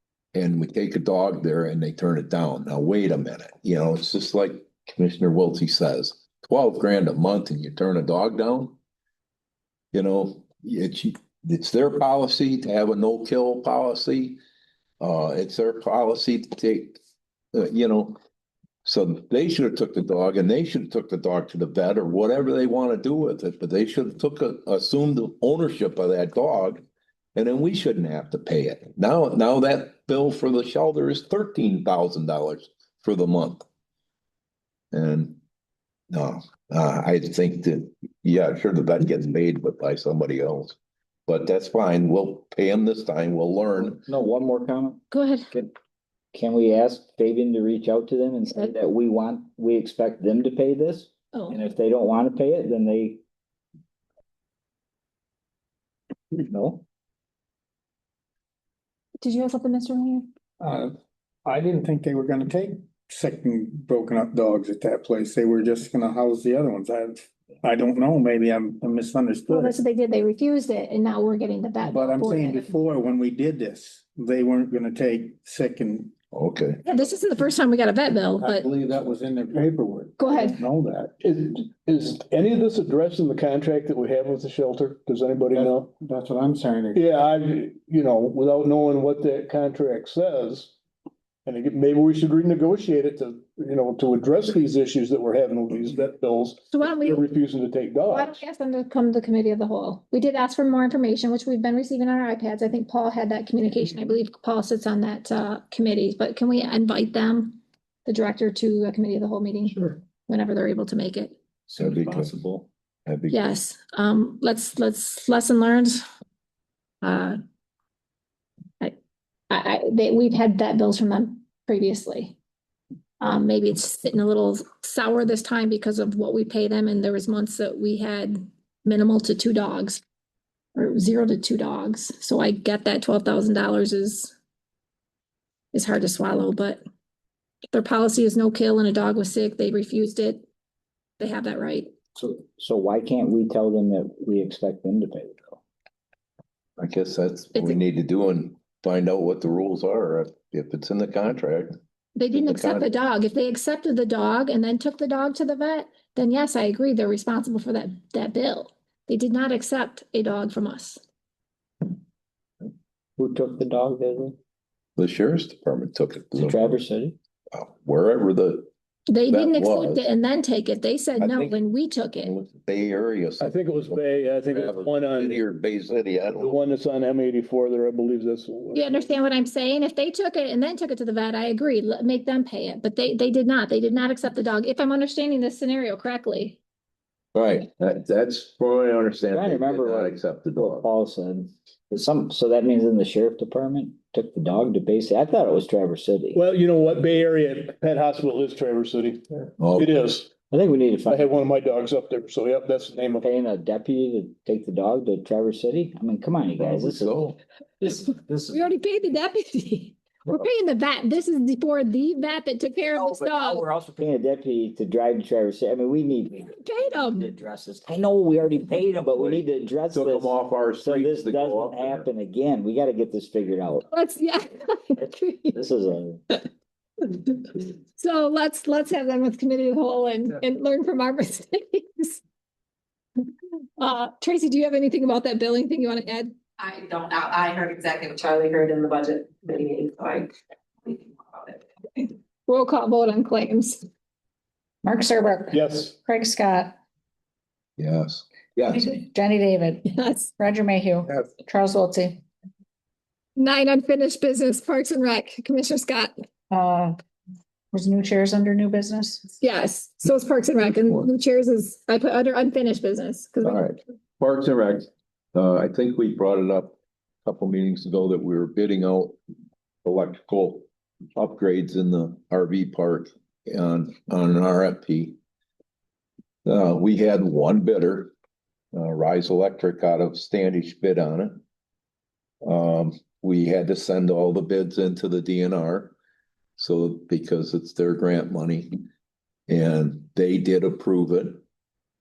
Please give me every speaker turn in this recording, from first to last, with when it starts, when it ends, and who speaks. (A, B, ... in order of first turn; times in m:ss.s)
0:00.3-0:08.8 A
0:09.9-0:14.4 A
0:15.0-0:17.0 A
0:17.5-0:18.2 A
0:18.8-0:26.8 A
0:27.3-0:33.6 A
0:34.9-0:35.4 A
0:36.1-0:44.0 A
0:43.8-0:45.7 B
0:45.1-0:45.5 C
0:46.3-0:53.2 B
0:51.3-0:51.6 C
0:56.4-0:56.8 B
0:59.2-1:00.3 C
1:00.6-1:09.8 D
1:09.5-1:12.7 C
1:11.8-1:16.1 D
1:16.3-1:16.8 A
1:16.8-1:18.7 C
1:18.4-1:21.1 D
1:20.2-1:20.6 C
1:21.1-1:25.9 E
1:25.5-1:27.0 D
1:26.9-1:30.7 E
1:31.4-1:38.4 E
1:36.7-1:37.2 C
1:38.0-1:51.4 C
1:51.7-1:52.7 B
1:51.8-1:52.4 A
1:53.0-1:53.5 A
1:53.3-1:56.0 C
1:57.0-1:57.4 C
1:59.5-2:02.4 C
2:03.2-2:10.0 C
2:10.7-2:14.3 C
2:15.7-2:16.8 C
2:17.7-2:20.4 C
2:21.2-2:21.9 C
2:22.2-2:25.6 B
2:26.8-2:31.7 A
2:32.2-2:41.0 C
2:32.3-2:32.9 A
2:43.2-2:44.4 B
2:45.0-2:46.8 A
2:46.4-2:47.2 B
2:47.5-2:48.7 A
2:49.1-2:52.3 C
2:49.3-2:50.1 A
2:51.2-2:51.6 A
2:52.2-2:56.6 A
2:53.4-2:55.4 E
2:56.3-2:59.1 E
2:58.7-3:06.6 C
3:07.3-3:10.9 A
3:09.3-3:16.4 B
3:16.3-3:20.3 E
3:19.6-3:19.9 A
3:20.5-3:21.3 B
3:21.0-3:23.2 E
3:23.2-3:27.2 B
3:26.6-3:27.4 A
3:27.8-3:28.7 B
3:28.5-3:33.6 C
3:32.9-3:43.9 B
3:36.5-3:37.3 C
3:39.1-3:42.1 A
3:43.9-3:45.6 C
3:45.5-3:46.2 B
3:47.1-3:52.2 C
3:53.8-3:56.4 C
3:56.6-4:02.1 F
4:02.5-4:03.8 C
4:04.8-4:06.7 G
4:05.5-4:06.0 E
4:07.8-4:09.0 A
4:08.7-4:12.2 G
4:09.8-4:10.3 C
4:13.4-4:16.1 C
4:16.5-4:17.0 G
4:17.7-4:19.2 G
4:19.4-4:23.6 C
4:23.4-4:29.2 A
4:29.8-4:35.2 A
4:36.4-4:38.1 A
4:38.7-4:41.4 A
4:42.4-4:45.9 A
4:46.6-4:48.8 A
4:49.5-4:51.4 A